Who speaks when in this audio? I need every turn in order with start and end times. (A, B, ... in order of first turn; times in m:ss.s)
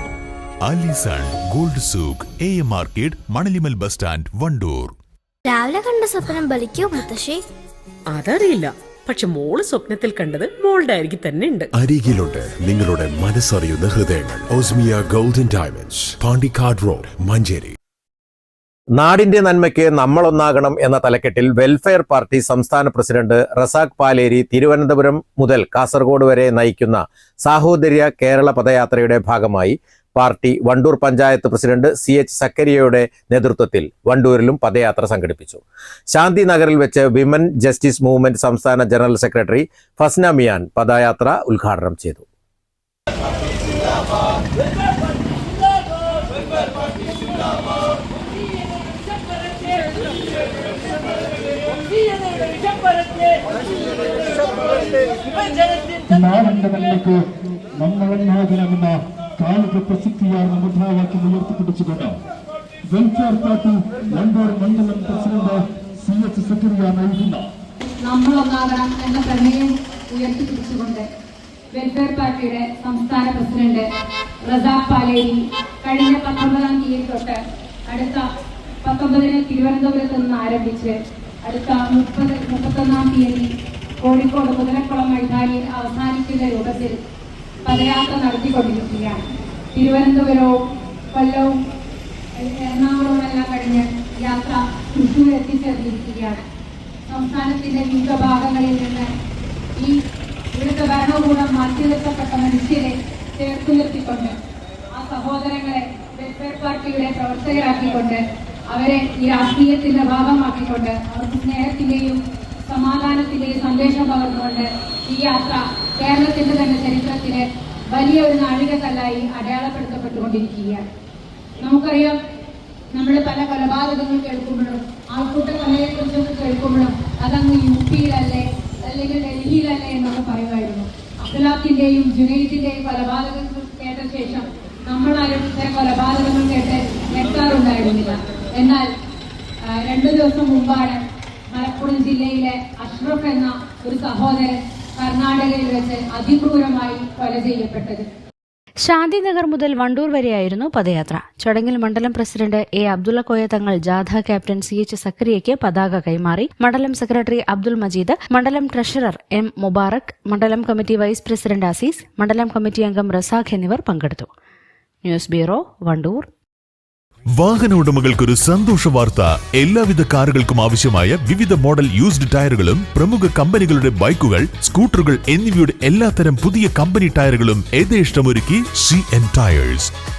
0:00.6-0:04.9 A
0:05.4-0:07.4 B
0:08.1-0:11.7 C
0:11.7-0:17.7 D
0:18.9-0:42.2 E
0:56.1-0:57.2 F
0:57.8-1:02.2 F
1:02.9-1:07.4 F
1:08.0-1:11.1 G
1:11.7-1:13.8 G
1:14.4-1:18.2 G
1:18.8-1:23.5 G
1:24.0-1:27.0 G
1:27.6-1:29.2 G
1:29.7-1:30.5 G
1:31.1-1:31.6 G
1:32.4-1:36.4 G
1:37.1-1:39.1 G
1:40.5-1:44.4 G
1:44.9-2:00.8 G
2:01.6-2:02.1 G
2:02.9-2:18.9 G
2:19.7-2:21.0 G
2:21.5-2:28.0 G
2:28.8-2:44.3 H
2:45.0-2:46.3 H
2:47.4-2:59.9 A